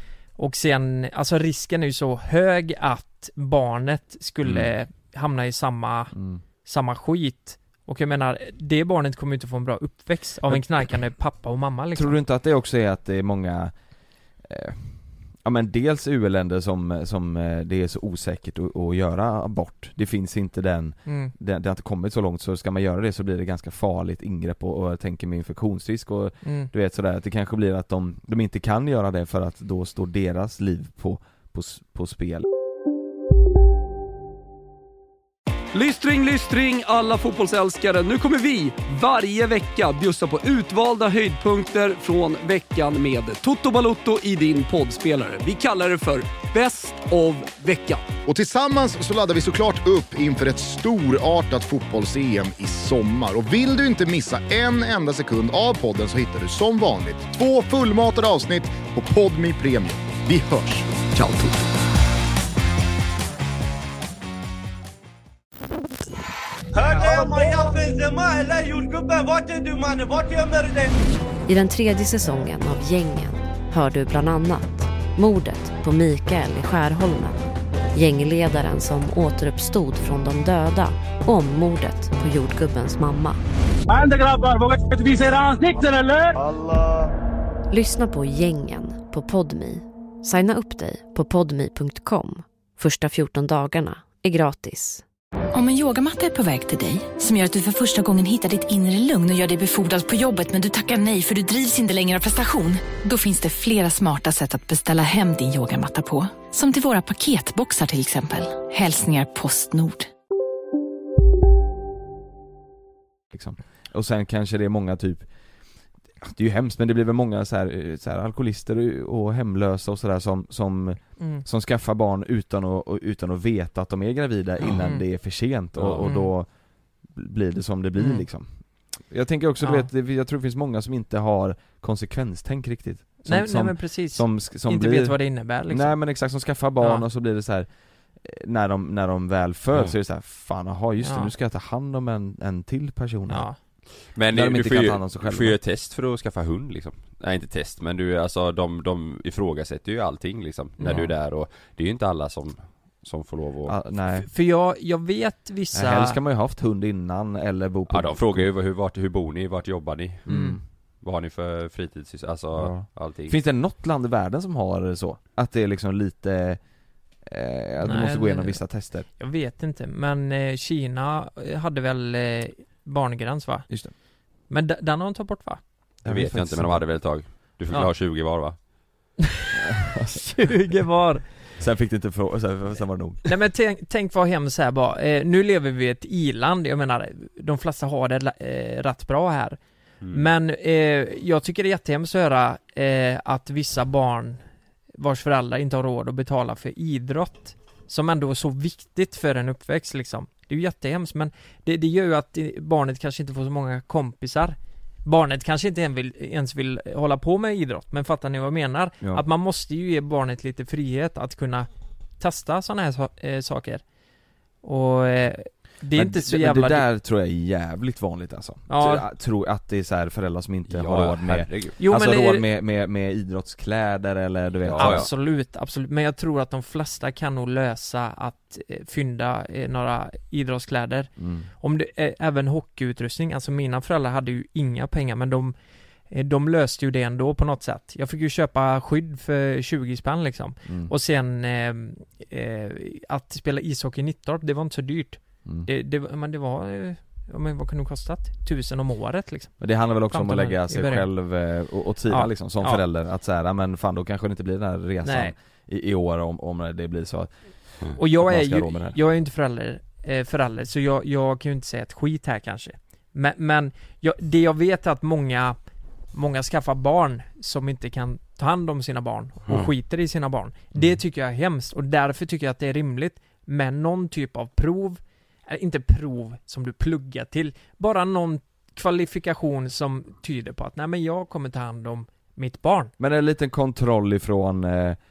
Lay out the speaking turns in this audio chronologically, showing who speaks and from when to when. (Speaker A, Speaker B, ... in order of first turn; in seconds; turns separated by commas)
Speaker A: 0.4-6.1, Speaker B: 6.1-6.4, Speaker A: 6.7-12.2, Speaker B: 11.9-13.7, Speaker B: 14.4-32.5, Speaker A: 21.1-21.3, Speaker A: 26.4-26.7, Speaker C: 35.7-48.0, Speaker D: 48.3-61.0, Speaker E: 66.8-70.9, Speaker F: 71.5-77.4, Speaker F: 77.9-83.4, Speaker G: 83.9-86.4, Speaker F: 87.7-95.0, Speaker H: 95.5-110.1, Speaker B: 113.3-115.3, Speaker B: 116.2-126.5, Speaker A: 121.2-121.5, Speaker A: 124.6-125.0, Speaker I: 125.8-126.1, Speaker A: 126.0-126.3, Speaker B: 127.1-128.5, Speaker A: 128.0-128.2, Speaker B: 129.0-137.7, Speaker A: 129.6-129.9, Speaker A: 133.2-135.9, Speaker A: 136.8-137.1, Speaker B: 138.2-143.5, Speaker A: 141.0-141.3, Speaker A: 143.3-143.6, Speaker I: 144.2-153.8, Speaker B: 144.3-145.6, Speaker A: 150.8-151.1, Speaker B: 153.7-154.3, Speaker A: 154.2-156.2, Speaker B: 155.7-158.5, Speaker I: 157.9-160.3, Speaker B: 160.3-160.6, Speaker A: 160.3-160.6, Speaker I: 161.0-163.3, Speaker B: 162.6-166.6, Speaker B: 167.2-169.1, Speaker A: 167.8-168.6, Speaker A: 169.2-173.7, Speaker A: 174.5-175.6, Speaker B: 176.0-176.8, Speaker I: 176.1-178.6, Speaker B: 179.6-180.4, Speaker A: 180.1-181.2, Speaker B: 181.6-183.2, Speaker A: 183.3-189.6, Speaker I: 190.0-190.3, Speaker A: 190.1-194.4, Speaker A: 195.0-211.7, Speaker A: 212.2-213.8, Speaker A: 214.6-216.8, Speaker B: 215.9-225.1, Speaker A: 218.7-219.0, Speaker I: 220.7-221.8, Speaker A: 221.8-222.5, Speaker I: 224.7-225.1, Speaker A: 224.8-231.1, Speaker B: 231.2-231.5, Speaker A: 231.6-235.5, Speaker A: 236.1-249.6, Speaker B: 240.7-240.9, Speaker B: 249.6-257.3, Speaker A: 250.1-251.1, Speaker A: 252.1-252.8, Speaker A: 255.0-255.3, Speaker A: 258.0-265.6, Speaker B: 258.1-259.0, Speaker A: 266.1-282.9, Speaker B: 283.0-285.0